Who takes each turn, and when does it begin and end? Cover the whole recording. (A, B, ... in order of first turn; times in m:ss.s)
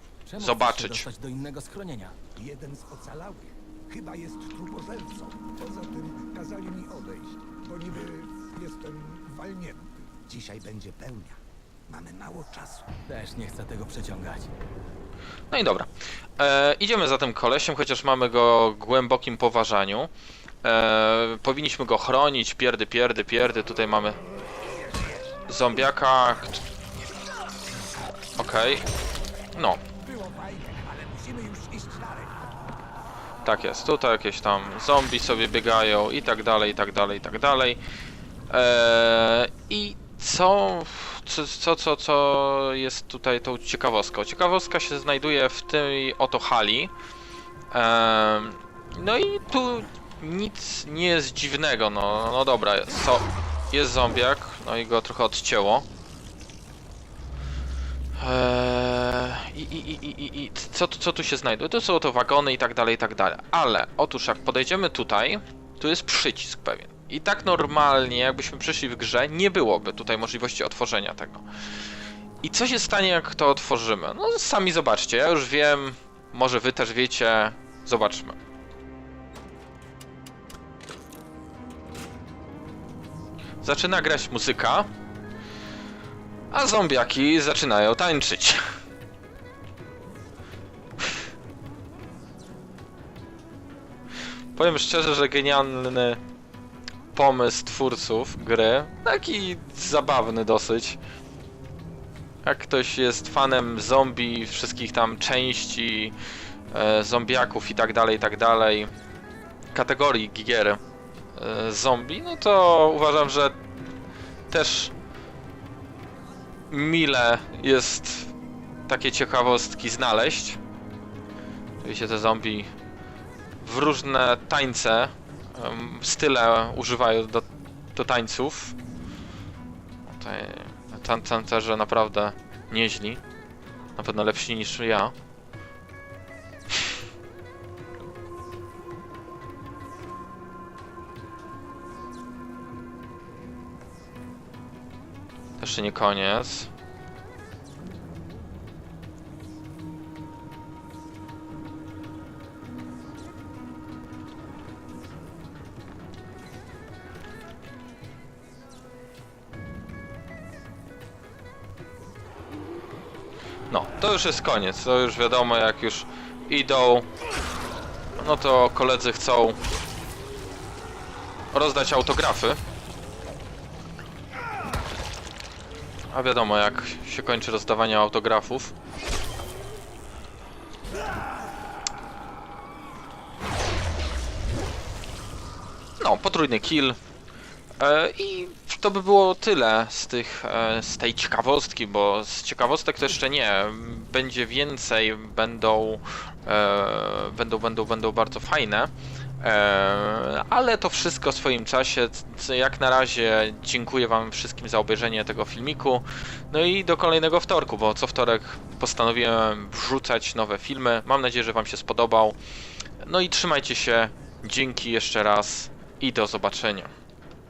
0:00.2-0:02.2 A
0:00.4-0:01.1 B
0:02.4-0:12.9 C
0:13.1-0:14.5 A
0:15.5-0:20.1 B
0:20.6-0:24.2 B
0:24.9-0:25.2 C
0:25.5-0:26.6 B
0:28.4-0:28.8 B
0:29.5-0:29.8 B
0:30.0-0:32.4 C
0:33.4-0:37.8 B
0:38.5-0:46.9 B
0:47.7-0:55.8 B
0:58.2-1:11.4 B
1:12.4-1:18.4 B
1:23.6-1:24.9 B
1:26.5-1:28.6 B
1:34.5-1:36.2 B
1:37.1-1:41.0 B
1:42.4-1:46.1 B
1:46.7-1:48.9 B
1:49.7-1:50.8 B
1:51.3-1:53.6 B
1:54.5-1:54.9 B
1:56.7-1:58.3 B
1:58.9-2:00.6 B
2:01.8-2:02.7 B
2:03.6-2:08.8 B
2:10.1-2:13.2 B
2:14.0-2:15.1 B
2:25.6-2:26.7 B
2:43.7-2:47.1 B
2:48.2-2:49.6 B
2:51.5-2:52.6 B
2:56.1-2:58.7 B
3:06.0-3:07.0 B
3:07.8-3:32.4 B
3:33.0-3:36.9 B